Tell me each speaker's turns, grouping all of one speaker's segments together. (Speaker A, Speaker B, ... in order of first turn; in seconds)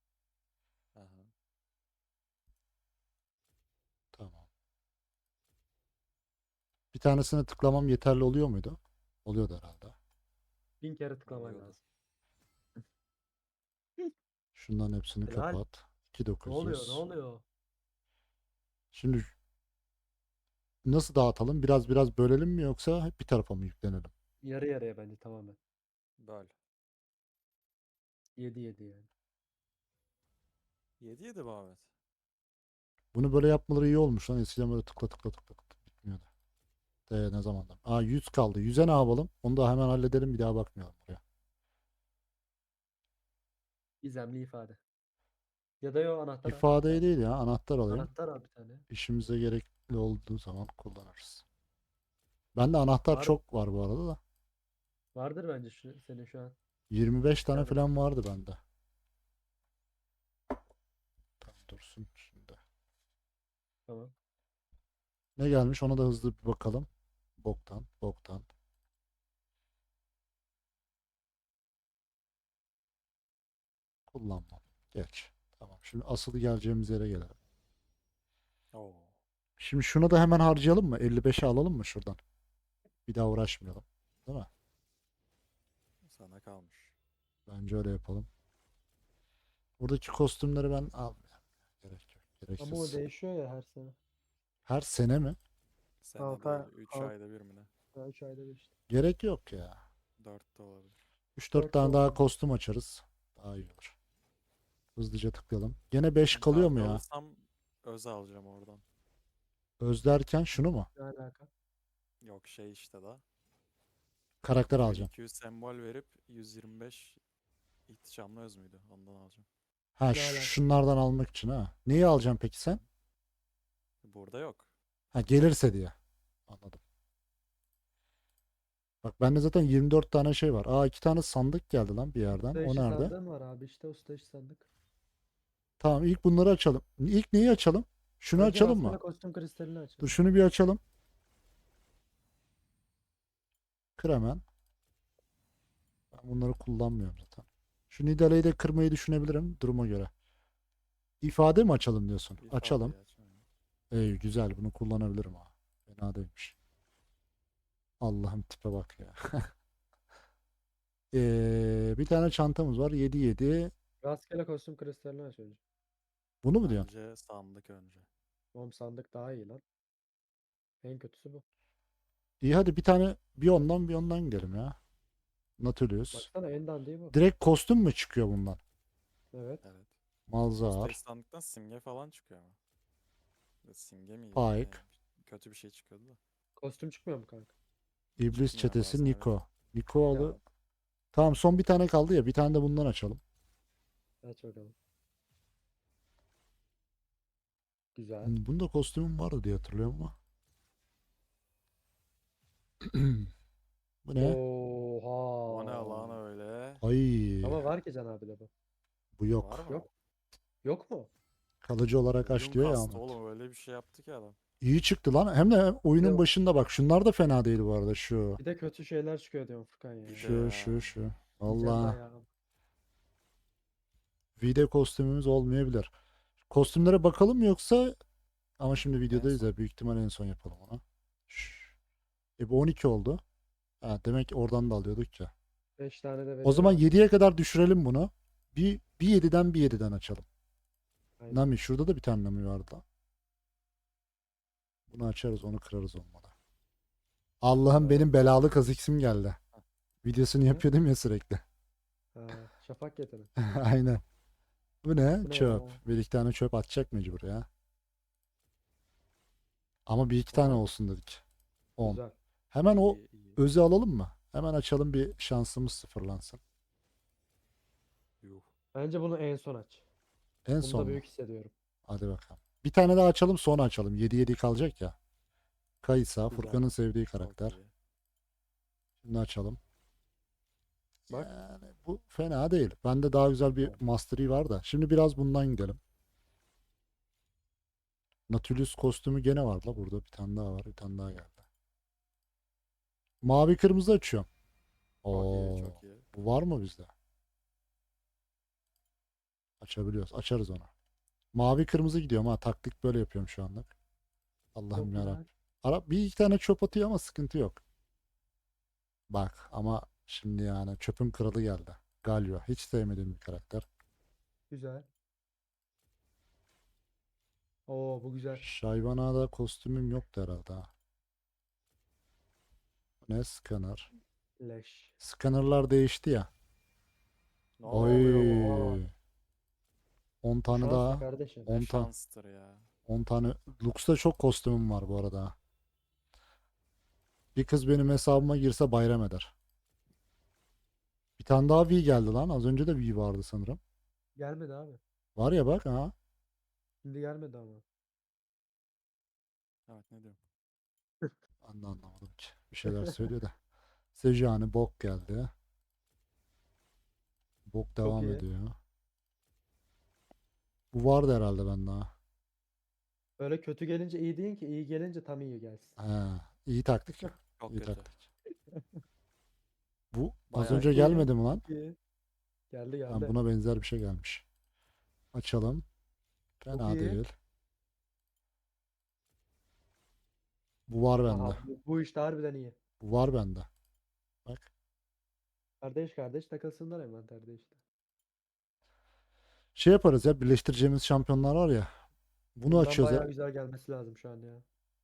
Speaker A: 0.9-1.3, 11.2-11.8, 26.2-26.5, 31.0-31.9, 78.7-79.2, 86.1-87.0, 96.0-97.7, 100.2-101.0, 106.3-108.8, 112.2-113.2, 114.8-117.2, 117.9-119.5, 124.0-124.7, 152.4-153.4, 166.6-168.1, 179.6-179.9, 180.6-182.6, 183.6-186.2, 188.3-189.3, 205.5-206.8, 209.3-209.9, 212.2-214.4, 220.0-221.0, 228.8-229.5, 262.7-263.4, 268.2-268.5, 277.2-277.7, 295.1-296.1, 327.6-328.4, 331.5-332.7, 349.7-350.2, 367.4-367.9, 370.3-370.9
Speaker B: 4.1-4.5, 6.9-9.9, 14.5-17.1, 18.9-19.3, 20.8-24.1, 33.1-36.3, 37.1-41.2, 46.4-48.1, 48.9-51.4, 52.5-54.2, 56.9-58.6, 61.4-62.6, 65.4-66.9, 67.4-68.5, 74.1-77.3, 79.6-82.2, 83.1-84.5, 87.5-88.3, 89.8-93.0, 94.7-95.4, 98.9-99.8, 101.3-104.0, 105.0-107.0, 109.8-110.9, 114.4-115.1, 120.0-122.8, 125.1-125.9, 126.5-126.8, 129.0-133.1, 135.8-139.0, 140.0-140.8, 144.0-144.4, 146.1-150.1, 151.2-152.9, 153.9-156.6, 158.0-159.5, 161.1-163.7, 166.4-166.9, 172.4-174.8, 175.6-176.3, 177.1-178.6, 180.3-181.0, 184.3-184.8, 188.2-190.4, 191.1-193.2, 198.2-200.2, 202.8-203.3, 204.0-204.4, 206.8-207.7, 209.2-209.6, 211.6-213.2, 214.6-218.4, 220.2-222.0, 224.4-225.9, 226.5-227.9, 228.6-231.7, 232.4-233.2, 233.8-235.3, 236.4-240.2, 241.3-242.8, 244.9-246.3, 247.4-249.4, 250.0-251.4, 253.4-254.0, 254.8-257.5, 259.9-261.2, 261.8-266.4, 270.4-271.0, 271.9-274.9, 275.8-277.6, 279.0-279.6, 281.1-285.8, 288.3-291.4, 293.2-294.3, 295.0-296.9, 299.6-300.7, 301.3-303.7, 304.5-307.6, 309.1-313.6, 318.3-320.7, 323.1-323.9, 325.0-326.3, 327.6-328.9, 330.2-331.9, 332.9-335.3, 337.3-339.3, 341.2-343.6, 345.1-345.9, 351.4-353.3, 353.9-355.3, 357.5-358.6, 360.7-361.9, 365.8-368.0, 369.9-371.4, 372.9-374.2, 375.1-375.6, 376.4-377.1, 380.7-381.4, 382.8-383.5, 389.5-391.7, 392.4-393.1
Speaker C: 10.8-11.8, 15.2-15.6, 16.4-17.4, 24.4-25.6, 28.4-29.1, 44.0-44.8, 45.8-47.0, 47.9-48.9, 53.1-53.4, 55.1-56.5, 57.5-57.8, 63.9-64.1, 92.6-94.0, 96.2-97.1, 97.9-98.7, 101.5-102.3, 110.9-111.5, 120.1-120.6, 132.4-134.7, 138.3-140.2, 164.0-165.6, 168.5-169.6, 170.8-171.4, 176.1-177.2, 179.3-179.6, 186.6-187.5, 190.1-190.4, 194.2-194.7, 197.9-198.3, 204.2-206.2, 207.4-208.5, 210.6-211.1, 215.9-216.2, 218.4-220.3, 221.4-222.3, 235.8-236.9, 241.2-241.4, 247.6-248.1, 252.1-253.3, 255.2-255.8, 260.3-260.6, 261.8-262.1, 268.7-269.9, 270.6-271.5, 276.3-276.7, 304.7-305.3, 314.5-314.9, 317.7-318.5, 324.4-325.0, 327.7-328.9, 330.5-331.6, 344.2-344.8, 346.8-347.6, 352.6-353.1, 357.8-358.2, 363.2-365.8, 368.5-368.8, 370.4-371.8, 372.5-373.2, 376.5-377.0, 381.0-382.6, 385.6-387.6, 392.4-394.4